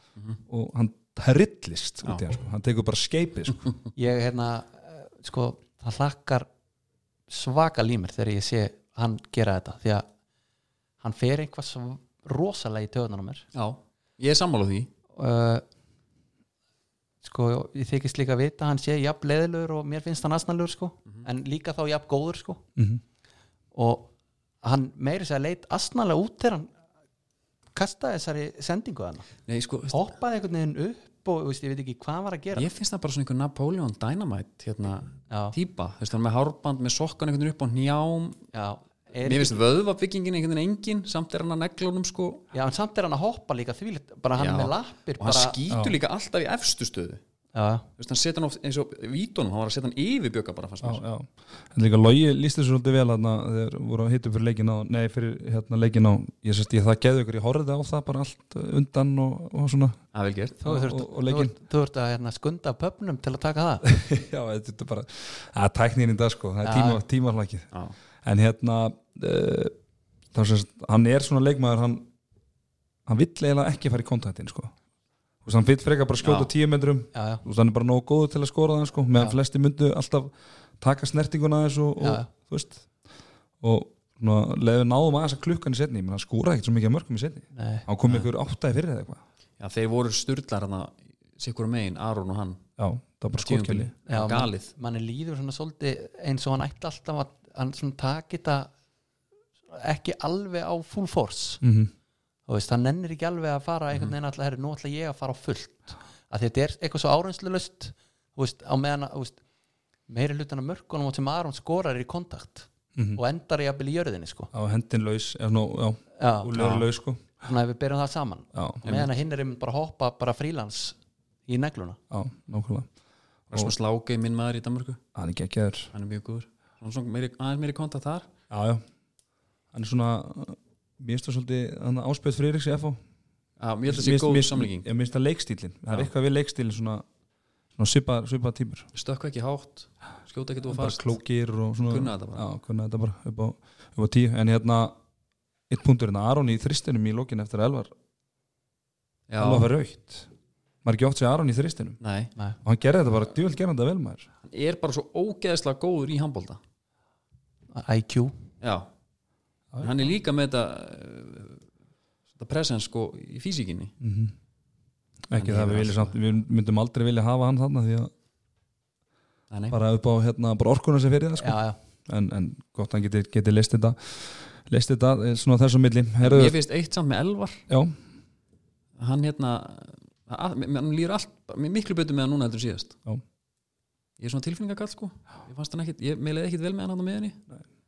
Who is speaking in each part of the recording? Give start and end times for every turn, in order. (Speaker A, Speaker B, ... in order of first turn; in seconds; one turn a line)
Speaker A: 0.5-3.7
Speaker B: 3.9-6.5
Speaker B: 7.3-10.1
Speaker B: 11.0-13.4
Speaker C: 13.5-14.9
Speaker B: 15.1-15.6
Speaker B: 17.2-22.6
Speaker B: 23.7-24.1
Speaker B: 24.6-26.7
Speaker B: 27.7-29.3
Speaker C: 29.5-30.0
Speaker B: 29.9-32.7
Speaker C: 32.5-38.4
Speaker B: 35.3-35.5
Speaker B: 38.5-39.6
Speaker C: 39.2-42.4
Speaker B: 42.5-45.6
Speaker C: 44.4-47.2
Speaker A: 45.7-46.0
Speaker B: 47.5-47.9
Speaker C: 48.0-51.0
Speaker A: 50.8-60.0
Speaker C: 60.1-60.6
Speaker B: 60.6-63.9
Speaker A: 60.6-61.5
Speaker A: 63.8-67.7
Speaker B: 66.6-67.0
Speaker A: 68.2-69.7
Speaker A: 70.3-72.1
Speaker A: 73.0-74.7
Speaker A: 75.4-82.9
Speaker C: 76.2-76.5
Speaker B: 77.1-77.4
Speaker B: 82.0-82.3
Speaker A: 83.6-89.2
Speaker B: 87.5-87.9
Speaker C: 89.6-92.6
Speaker A: 92.8-93.9
Speaker C: 93.3-94.7
Speaker B: 94.1-98.7
Speaker B: 99.7-101.6
Speaker A: 101.6-101.9
Speaker B: 102.5-109.4
Speaker B: 110.1-114.5
Speaker A: 112.9-113.2
Speaker A: 114.5-117.2
Speaker B: 116.2-116.8
Speaker C: 116.6-116.8
Speaker B: 117.4-121.0
Speaker A: 118.5-119.1
Speaker B: 121.5-122.0
Speaker A: 122.1-122.9
Speaker C: 123.5-125.0
Speaker A: 125.1-125.9
Speaker C: 125.9-128.3
Speaker A: 128.5-128.8
Speaker A: 129.7-133.0
Speaker C: 133.6-134.8
Speaker A: 133.9-137.0
Speaker A: 137.8-138.9
Speaker C: 138.9-141.1
Speaker A: 140.7-144.9
Speaker C: 141.8-142.4
Speaker A: 145.7-147.9
Speaker C: 149.3-149.7
Speaker A: 149.4-150.3
Speaker A: 150.8-152.0
Speaker C: 152.0-152.3
Speaker A: 152.6-154.3
Speaker C: 154.4-156.6
Speaker B: 157.7-158.3
Speaker C: 158.6-158.9
Speaker C: 159.8-161.6
Speaker C: 162.3-163.9
Speaker A: 164.0-164.3
Speaker A: 165.3-168.1
Speaker C: 165.3-166.1
Speaker C: 169.5-169.8
Speaker A: 169.7-176.6
Speaker B: 171.4-171.8
Speaker C: 176.2-177.6
Speaker A: 177.7-177.9
Speaker C: 179.0-182.9
Speaker C: 184.2-187.4